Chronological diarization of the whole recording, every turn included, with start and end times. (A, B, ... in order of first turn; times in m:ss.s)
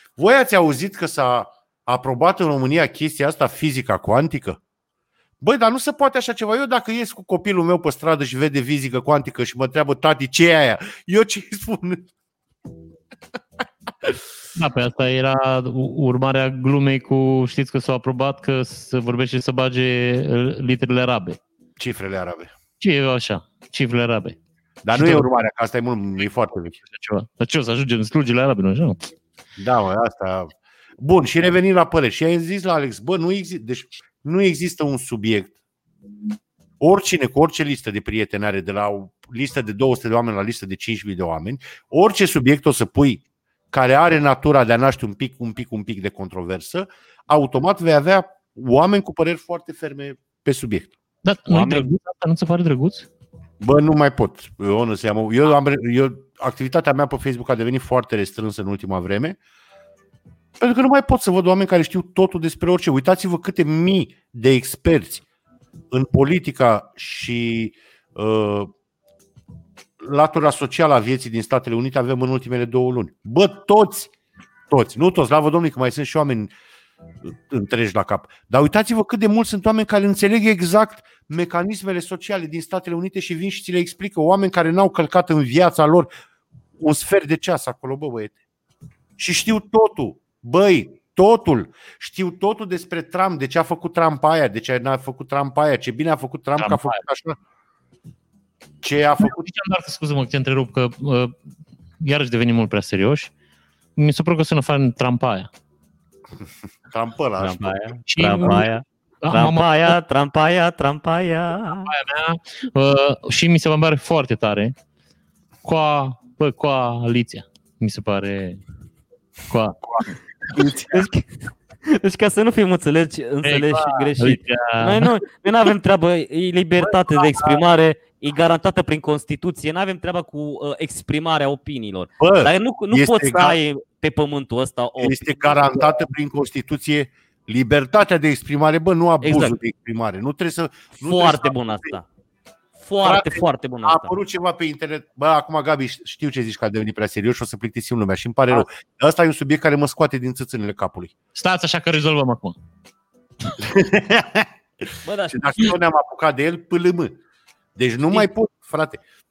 0:00.2-0:04.6 A
0:05.4-0:12.1 A
0:14.6-0:21.4 B
0:21.8-0:22.5 A
0:22.8-0:24.4 B
0:24.8-0:26.8 A
0:24.9-0:25.3 B
0:26.8-0:29.0 B
0:29.6-0:35.6 A
0:36.8-0:50.9 A
0:51.2-0:53.1 B
0:51.5-0:51.9 C
0:53.6-0:59.4 A
1:00.6-1:05.2 A
1:05.9-1:08.7 A
1:10.0-1:14.1 A
1:14.7-1:16.5 A
1:17.3-1:26.1 A
1:26.8-1:28.4 A
1:29.2-1:37.4 A
1:36.6-1:37.0 B
1:38.8-1:39.5 A
1:39.2-1:41.4 B
1:42.0-1:43.3 B
1:44.0-1:45.5 B
1:46.9-1:48.0 A
1:47.4-1:51.9 C
1:48.1-1:50.0 B
1:51.9-1:54.7 B
1:55.6-1:58.6 B
1:59.5-2:00.1 B
2:00.5-2:01.1 A
2:00.9-2:15.9 C
2:03.4-2:05.1 B
2:12.2-2:13.6 A
2:15.0-2:22.0 A
2:19.2-2:19.6 C
2:21.0-2:22.0 C
2:22.8-2:24.1 C
2:23.0-2:31.1 A
2:31.4-2:32.6 B
2:33.6-2:34.5 A
2:35.0-2:35.7 C
2:35.3-2:37.2 A
2:37.8-2:39.0 A